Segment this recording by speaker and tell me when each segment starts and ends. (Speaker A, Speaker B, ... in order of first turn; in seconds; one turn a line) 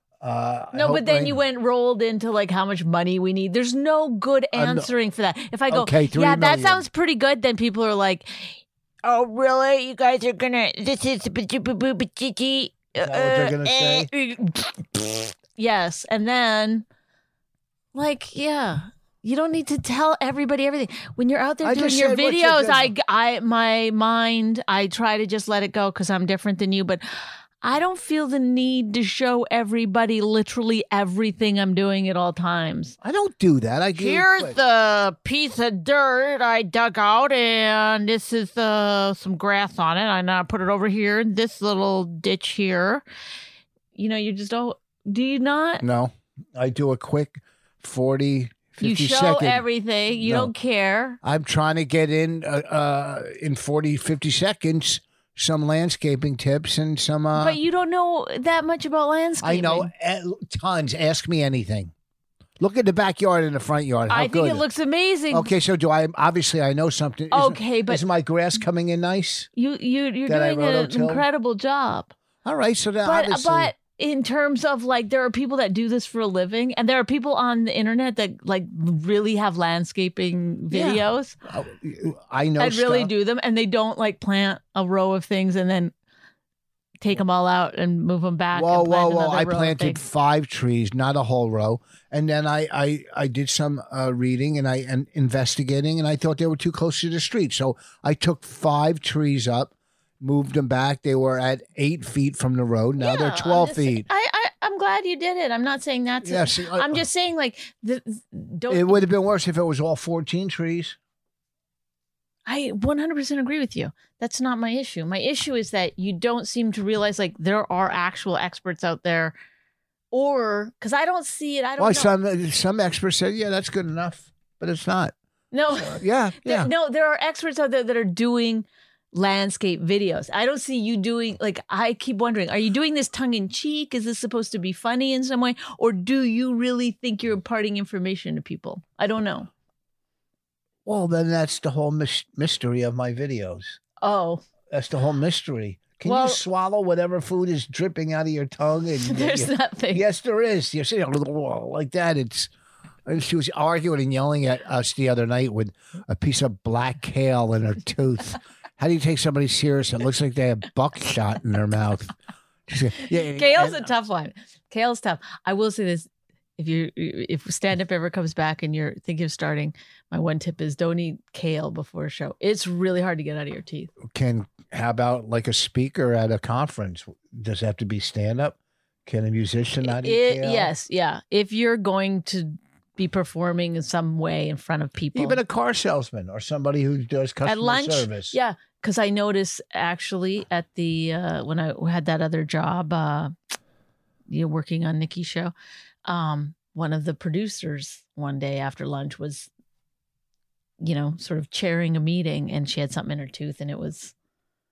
Speaker A: 0.2-1.4
Speaker B: 0.7-16.8
Speaker A: 4.5-4.9
Speaker A: 5.7-6.8
Speaker A: 13.0-14.1
Speaker B: 17.9-27.0
Speaker A: 21.6-22.9
Speaker B: 27.6-33.0
Speaker A: 33.0-34.6
Speaker B: 33.9-43.0
Speaker B: 43.9-45.8
Speaker A: 45.8-49.6
Speaker B: 48.8-51.2
Speaker A: 50.2-50.5
Speaker A: 51.2-57.6
Speaker B: 57.3-59.9
Speaker A: 59.4-61.9
Speaker A: 62.6-64.6
Speaker B: 64.1-65.5
Speaker A: 65.3-69.5
Speaker B: 67.3-68.0
Speaker B: 69.5-72.1
Speaker A: 70.3-71.2
Speaker A: 72.4-73.7
Speaker B: 73.0-81.3
Speaker A: 80.7-83.1
Speaker B: 82.6-85.9
Speaker B: 87.0-90.0
Speaker A: 88.5-104.0
Speaker B: 103.0-109.0
Speaker A: 106.2-107.0
Speaker A: 108.7-111.0
Speaker B: 112.5-119.3
Speaker B: 120.1-122.1
Speaker A: 121.8-125.1
Speaker B: 125.5-139.5
Speaker A: 125.8-126.7
Speaker A: 140.8-143.8
Speaker B: 144.0-144.4
Speaker A: 144.7-152.5
Speaker B: 146.0-146.4
Speaker B: 149.0-150.0
Speaker A: 153.1-162.1
Speaker A: 162.7-163.9
Speaker B: 163.1-173.9
Speaker A: 174.0-180.7
Speaker B: 179.8-185.4
Speaker A: 185.1-188.4
Speaker B: 187.4-193.3
Speaker B: 194.3-195.5
Speaker B: 196.1-199.5
Speaker B: 200.8-204.1